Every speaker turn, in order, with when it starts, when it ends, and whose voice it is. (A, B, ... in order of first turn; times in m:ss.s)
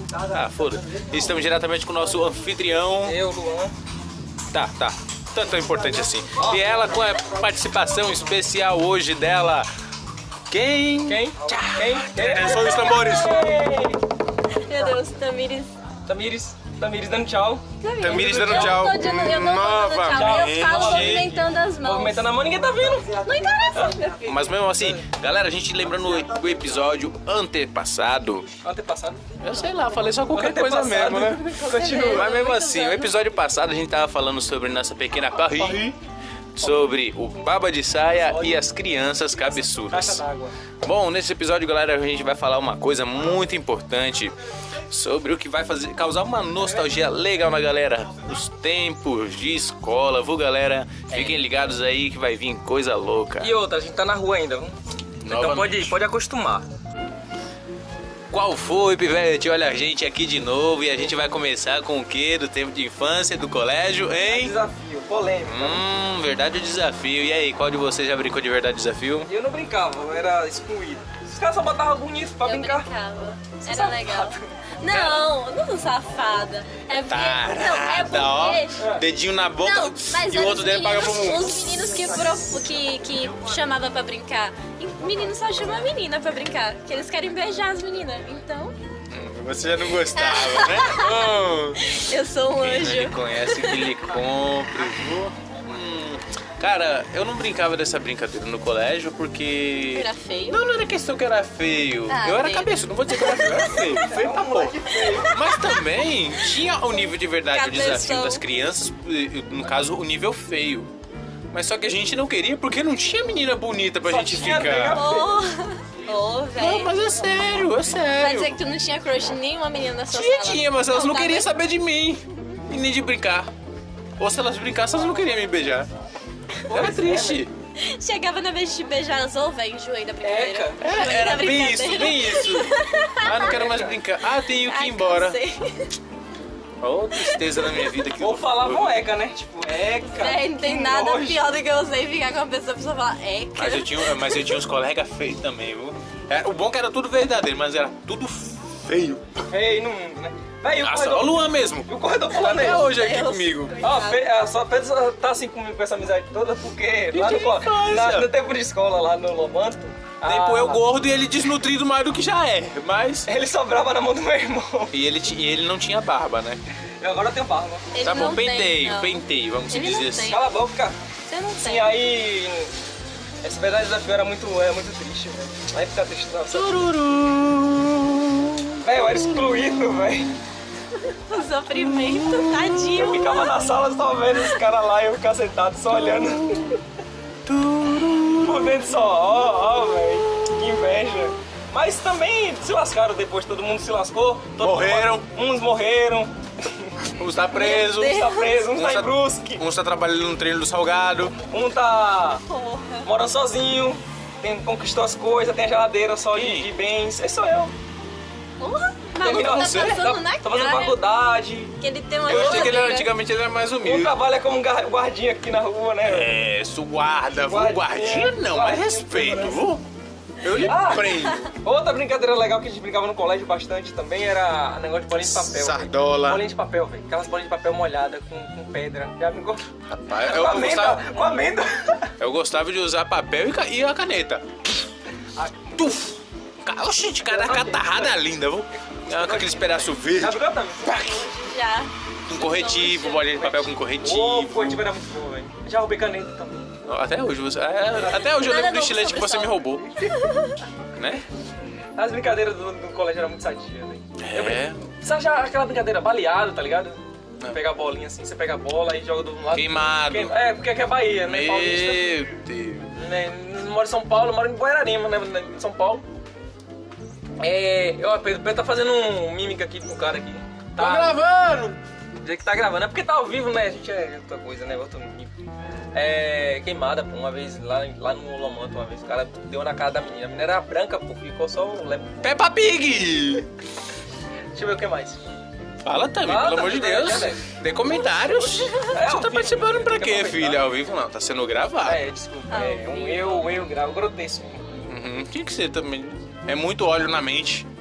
0:00.3-0:03.1 A
0:03.0-0:03.7 B
0:04.5-0:09.7 A
0:06.4-0:06.6 B
0:10.5-0:13.5 A
0:11.0-0:14.0 B
0:14.6-0:15.7 C
0:16.0-0:18.8 B
0:17.8-0:22.2 C
0:18.0-0:21.4 A
0:20.1-0:23.1 B
0:23.1-0:24.4 C
0:23.7-0:25.0 B
0:24.2-0:28.5 A
0:28.6-0:29.2 B
0:29.4-0:36.0 A
0:30.3-0:32.3 B
0:31.6-0:33.2 C
0:35.6-0:35.9 B
0:36.6-0:40.2 A
0:38.2-0:38.6 B
0:39.9-0:40.5 B
0:40.8-0:44.3 A
0:44.9-0:53.5 A
0:46.6-0:46.9 B
0:51.1-0:51.4 B
0:53.4-0:56.6 B
0:55.2-0:56.0 A
0:58.3-1:04.6 A
1:04.2-1:05.8 B
1:05.4-1:09.3 A
1:09.2-1:12.9 B
1:12.4-1:18.9 C
1:13.6-1:14.5 B
1:14.9-1:15.3 A
1:17.1-1:21.8 A
1:19.6-1:28.8 C
1:29.1-1:32.0 A
1:30.1-1:31.3 C
1:31.9-1:34.1 C
1:32.5-1:50.9 A
1:39.9-1:40.6 C
1:42.1-1:44.1 C
1:44.0-1:45.6 B
1:45.0-1:45.9 C
1:47.5-1:48.4 C
1:51.5-1:55.0 A
1:54.0-1:55.4 B
1:54.9-1:57.0 C
1:56.6-1:58.5 A
1:58.1-2:01.5 C
2:00.1-2:03.5 A
2:04.2-2:05.9 A
2:06.7-2:07.5 B
2:06.7-2:07.5 A
2:07.8-2:13.9 C
2:10.2-2:10.8 B
2:10.8-2:15.4 A
2:14.5-2:15.9 C
2:16.8-2:19.0 A
2:17.2-2:18.0 C
2:18.2-2:21.5 B
2:20.0-2:24.5 C
2:23.6-2:29.3 A
2:29.5-2:32.9 B
2:30.8-2:33.8 A
2:32.3-2:34.2 C
2:33.8-2:40.8 B
2:37.1-2:38.3 A
2:40.2-2:43.3 A
2:43.2-2:44.9 B
2:44.9-2:46.6 A
2:47.0-2:47.9 B
2:47.9-2:50.6 C
2:48.0-2:50.4 A
2:50.2-2:51.0 B
2:51.3-2:52.0 C
2:51.6-2:52.7 B
2:53.4-2:56.9 B
2:56.5-2:58.8 A
2:58.8-3:00.4 B
3:01.3-3:03.7 C
3:01.8-3:03.0 A
3:02.9-3:06.8 B
3:07.5-3:08.8 A
3:08.4-3:17.0 B
3:14.6-3:15.3 A
3:17.2-3:21.4 A
3:17.5-3:18.6 C
3:18.0-3:19.6 B
3:21.5-3:22.4 B
3:22.5-3:23.1 C
3:23.0-3:27.7 B
3:26.3-3:26.7 A
3:28.6-3:31.0 C
3:29.2-3:31.8 B
3:29.3-3:30.0 A
3:31.8-3:33.1 C
3:32.2-3:32.8 B
3:32.2-3:34.2 A
3:33.8-3:36.5 B
3:36.0-3:39.8 A
3:37.4-3:39.6 B
3:40.4-3:41.5 A
3:40.5-3:52.1 B
3:45.2-3:46.4 A
3:49.9-3:51.1 A
3:52.2-3:54.4 A
3:55.4-3:55.7 B
3:55.8-4:01.2 A
3:57.2-3:58.2 B
3:58.7-4:01.1 B
4:00.8-4:03.4 C
4:02.3-4:04.9 A
4:03.3-4:06.7 B
4:06.8-4:10.0 A
4:08.0-4:10.6 C
4:11.0-4:11.2 A
4:12.0-4:22.1 B
4:14.2-4:14.8 A
4:19.5-4:20.4 A
4:21.2-4:22.9 A
4:22.9-4:26.0 B
4:27.4-4:31.2 B
4:30.8-4:31.8 A
4:32.2-4:35.3 B
4:35.9-4:42.3 B
4:42.2-4:43.5 A
4:44.5-4:45.2 B
4:45.8-4:52.1 A
4:46.2-4:47.4 B
4:48.1-4:48.8 C
4:48.8-4:50.7 B
4:51.8-4:54.6 B
4:52.5-4:53.7 C
4:54.9-4:57.7 A